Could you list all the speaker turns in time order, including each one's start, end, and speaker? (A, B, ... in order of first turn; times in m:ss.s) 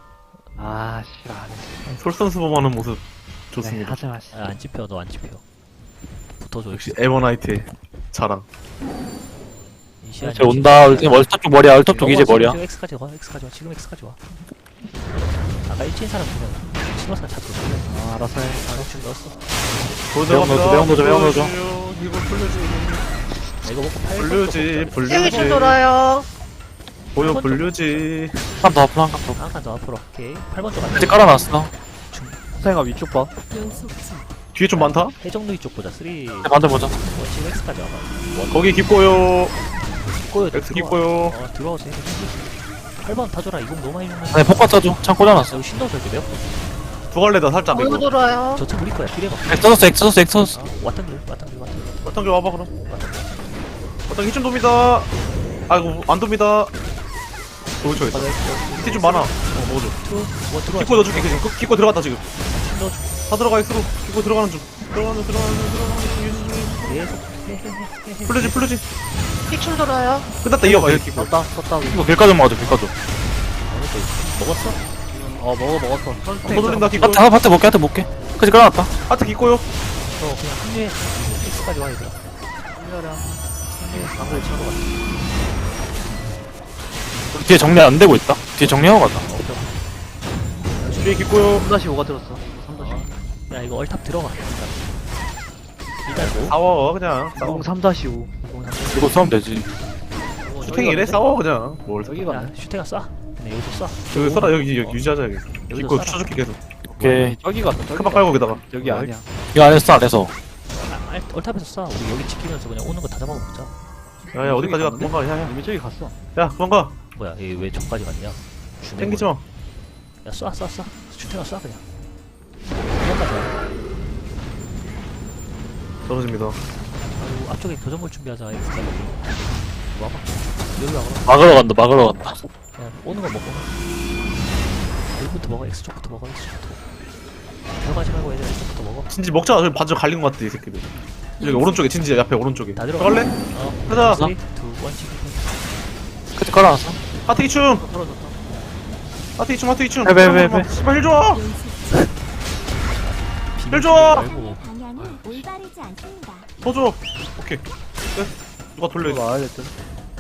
0:00.6-0:01.8 A
0:02.0-0:04.0 B
0:03.6-0:04.4 A
0:04.3-0:05.4 C
0:06.4-0:07.0 C
0:06.7-0:08.5 B
0:10.0-0:14.2 C
0:10.2-0:12.6 D
0:15.5-0:18.0 C
0:17.8-0:19.0 A
0:18.5-0:19.4 C
0:20.1-0:23.1 B
0:20.3-0:21.5 D
0:23.6-0:25.7 C
0:24.2-0:25.8 B
0:25.1-0:26.3 E
0:27.2-0:28.4 B
0:27.2-0:28.2 C
0:28.6-0:29.4 D
0:29.4-0:32.5 C
0:30.9-0:31.7 D
0:32.6-0:33.3 A
0:33.5-0:34.2 F
0:33.6-0:33.9 C
0:34.5-0:35.1 B
0:34.7-0:38.9 C
0:36.4-0:36.9 D
0:38.5-0:39.5 B
0:39.8-0:44.8 C
0:40.5-0:41.4 B
0:44.3-0:45.6 D
0:45.3-0:46.5 C
0:47.1-0:48.1 B
0:47.7-0:48.6 E
0:48.5-0:52.0 C
0:49.5-0:50.6 D
0:52.0-0:52.7 B
0:52.8-0:53.6 C
0:54.1-0:55.1 B
0:55.7-0:56.7 B
0:57.8-1:01.5 C
0:57.8-1:00.0 B
1:00.7-1:02.3 B
1:02.4-1:03.2 C
1:03.3-1:07.0 B
1:06.8-1:08.8 C
1:08.3-1:08.8 B
1:09.5-1:10.3 E
1:10.4-1:11.4 B
1:10.6-1:12.2 A
1:11.9-1:12.9 D
1:13.6-1:14.8 C
1:15.1-1:17.0 A
1:16.4-1:17.3 B
1:16.5-1:16.9 C
1:17.0-1:18.9 D
1:19.1-1:19.6 B
1:20.1-1:22.2 C
1:22.7-1:24.8 A
1:23.7-1:25.0 C
1:27.3-1:29.2 D
1:29.2-1:29.8 C
1:30.8-1:31.7 B
1:31.5-1:33.2 A
1:32.8-1:34.8 C
1:36.0-1:36.6 C
1:36.1-1:36.4 A
1:36.2-1:37.7 B
1:37.4-1:38.5 A
1:38.4-1:39.1 C
1:38.9-1:39.7 D
1:40.4-1:41.2 A
1:40.4-1:41.2 C
1:40.6-1:42.2 B
1:42.0-1:42.5 A
1:42.2-1:45.1 C
1:44.1-1:46.6 B
1:45.7-1:46.3 C
1:46.9-1:47.4 D
1:47.0-1:47.4 C
1:47.3-1:49.3 A
1:47.9-1:48.6 B
1:49.5-1:50.3 D
1:50.7-1:53.7 C
1:54.3-1:55.6 B
1:54.4-1:56.2 A
1:56.4-1:57.0 B
1:57.1-1:59.4 C
1:59.0-1:59.4 B
2:00.2-2:01.8 C
2:02.8-2:03.6 C
2:06.1-2:06.6 B
2:07.2-2:11.3 C
2:11.3-2:12.5 D
2:12.8-2:13.8 C
2:15.1-2:16.8 C
2:17.8-2:19.1 C
2:19.1-2:23.3 B
2:21.4-2:21.7 F
2:22.8-2:25.7 C
2:23.9-2:24.3 D
2:26.4-2:27.0 D
2:27.3-2:27.8 B
2:27.6-2:28.3 C
2:27.8-2:28.4 A
2:29.4-2:31.4 B
2:30.0-2:30.7 D
2:31.4-2:31.8 F
2:31.9-2:32.2 C
2:32.7-2:34.6 C
2:33.7-2:34.3 B
2:34.2-2:36.5 F
2:35.0-2:35.4 A
2:36.6-2:39.3 B
2:39.0-2:39.8 A